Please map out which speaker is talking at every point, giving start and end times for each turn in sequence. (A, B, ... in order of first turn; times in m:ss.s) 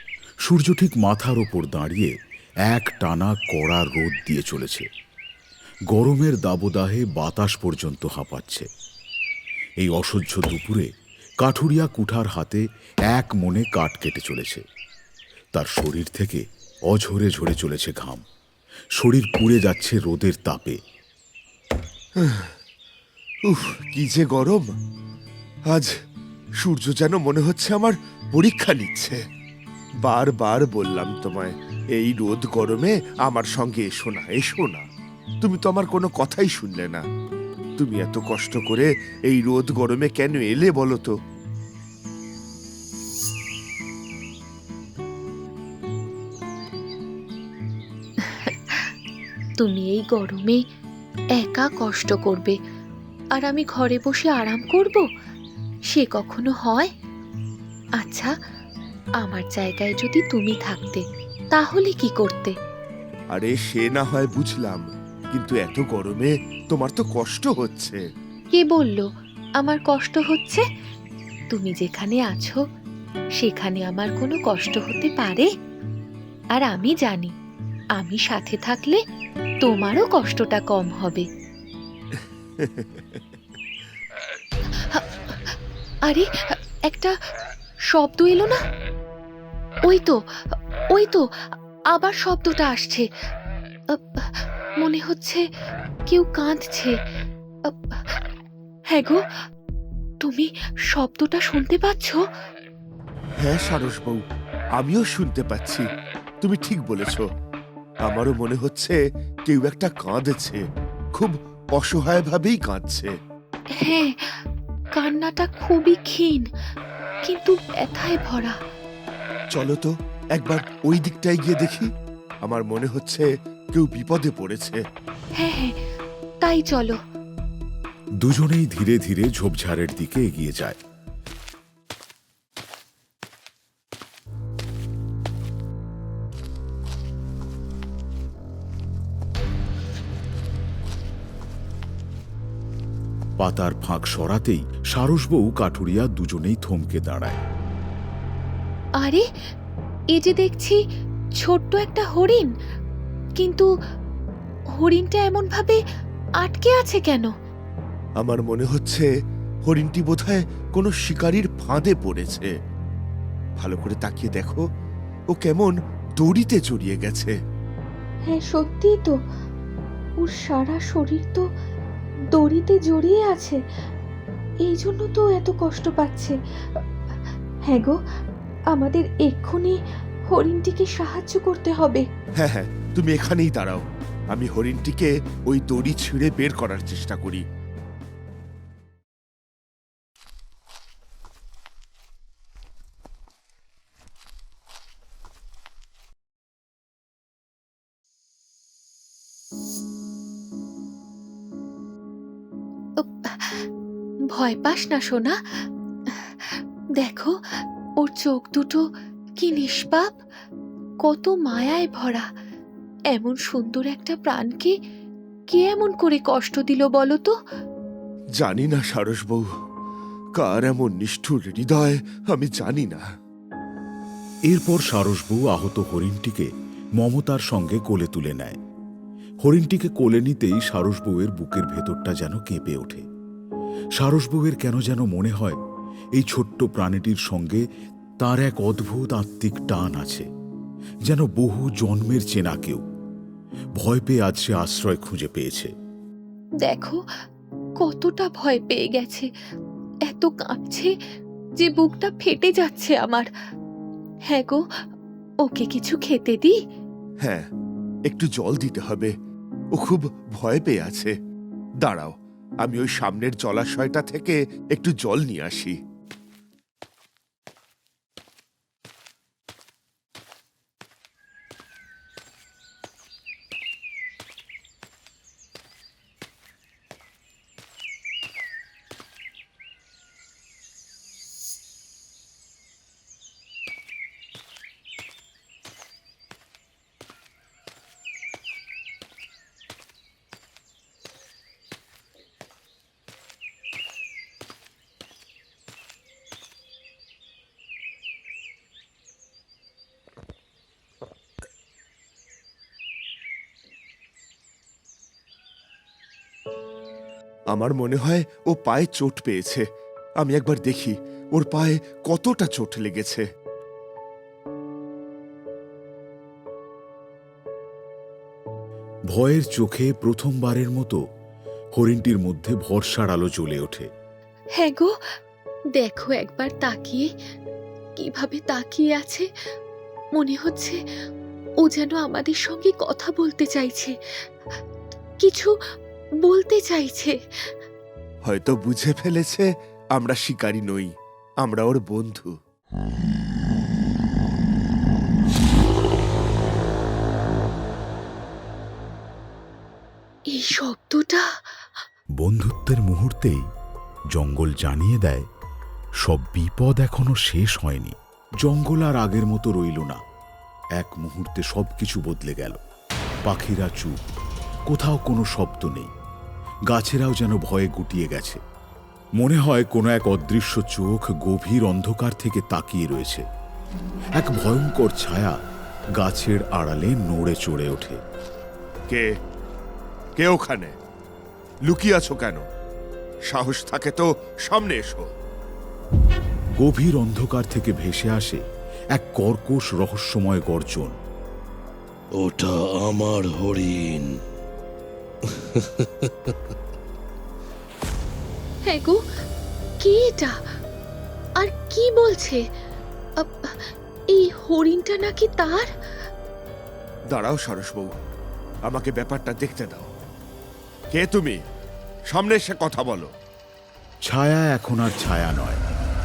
0:00.4-0:02.1 A
0:02.7-0:04.9 A
0:05.9-0:08.7 A
0:09.8-0:10.9 A
0:11.4-0:14.6 A
0:15.5-0:18.2 A
0:19.0-0:20.8 A
0:22.2-0:22.5 B
0:23.5-0:24.7 B
0:26.6-0:29.2 B
0:30.0-0:34.8 B
0:35.4-0:37.0 B
0:37.8-0:41.1 B
0:48.3-0:48.6 C
0:49.6-0:50.6 C
0:51.4-0:52.6 C
0:53.4-0:55.0 C
0:55.9-0:56.9 C
0:58.0-0:58.3 C
0:59.2-1:01.0 C
1:01.5-1:02.5 C
1:03.3-1:08.0 B
1:08.5-1:09.0 C
1:09.6-1:10.6 C
1:11.5-1:12.6 C
1:13.4-1:15.5 C
1:16.5-1:17.3 C
1:18.0-1:19.0 C
1:19.6-1:21.2 C
1:22.1-1:23.2 B
1:27.9-1:28.6 C
1:29.9-1:30.2 C
1:30.9-1:31.2 C
1:31.9-1:33.0 C
1:33.9-1:35.4 C
1:36.1-1:36.9 C
1:37.7-1:38.0 C
1:38.9-1:39.2 C
1:40.2-1:42.2 C
1:43.4-1:44.2 B
1:44.8-1:45.8 B
1:46.4-1:47.2 B
1:48.1-1:50.6 B
1:51.2-1:53.1 B
1:53.8-1:54.1 C
1:55.0-1:56.5 C
1:57.3-1:58.6 C
1:59.5-2:01.9 B
2:02.4-2:04.8 B
2:05.4-2:05.7 C
2:06.4-2:07.0 C
2:08.2-2:10.8 A
2:23.4-2:27.4 A
2:30.1-2:30.8 C
2:31.4-2:32.5 C
2:33.4-2:33.7 C
2:34.8-2:35.8 C
2:36.4-2:37.3 C
2:38.2-2:39.1 B
2:39.6-2:42.5 B
2:43.6-2:44.6 B
2:45.3-2:47.3 B
2:48.3-2:49.1 C
2:50.2-2:51.4 C
2:52.3-2:53.6 C
2:54.6-2:56.4 C
2:57.7-2:58.0 C
2:58.7-2:59.8 C
3:00.3-3:02.0 C
3:02.4-3:07.4 B
3:23.0-3:23.6 C
3:24.3-3:25.4 C
3:26.5-3:27.3 C
3:28.0-3:28.8 C
3:29.4-3:30.1 C
3:31.0-3:32.2 C
3:33.1-3:34.7 C
3:35.5-3:37.3 C
3:38.4-3:39.4 B
3:40.4-3:43.0 B
3:44.5-3:48.6 A
3:49.4-3:53.0 A
3:54.0-3:55.6 A
3:56.2-3:57.6 A
3:58.2-4:00.3 A
4:01.1-4:02.8 A
4:03.8-4:05.7 A
4:06.6-4:07.0 C
4:07.8-4:09.3 C
4:10.1-4:10.9 C
4:11.6-4:13.3 C
4:14.3-4:14.6 C
4:15.4-4:16.6 C
4:18.1-4:19.1 B
4:19.8-4:21.1 B
4:21.8-4:22.1 B
4:22.6-4:25.8 B
5:07.5-5:09.6 B
5:10.2-5:13.2 B
5:19.1-5:21.0 A
5:21.8-5:23.9 A
5:24.6-5:24.9 C
5:25.8-5:27.1 C
5:28.0-5:29.3 C
5:30.2-5:30.8 C
5:31.6-5:33.9 C
5:35.2-5:35.5 C
5:36.2-5:37.1 C
5:38.3-5:39.4 B
5:40.0-5:40.9 B
5:41.4-5:42.3 B
5:50.3-5:51.2 C
5:52.2-5:53.4 A
5:54.1-5:55.2 A
5:56.0-6:00.0 A
6:00.8-6:02.6 A
6:03.2-6:04.0 A
6:04.7-6:05.9 A
6:06.7-6:08.4 A
6:09.2-6:13.2 A
6:14.2-6:15.4 A
6:16.0-6:18.0 A
6:20.2-6:20.7 B
6:21.7-6:22.4 B
6:23.3-6:25.1 B
6:26.6-6:28.4 A
6:28.9-6:30.9 A
6:32.2-6:34.1 D
6:35.2-6:36.4 D
6:38.7-6:39.0 C
6:39.8-6:40.3 C
6:41.4-6:42.4 C
6:43.2-6:43.5 C
6:44.1-6:45.7 C
6:47.1-6:47.9 B
6:48.7-6:49.9 B
6:50.9-6:51.4 B
6:52.1-6:53.1 B
6:54.1-6:55.6 A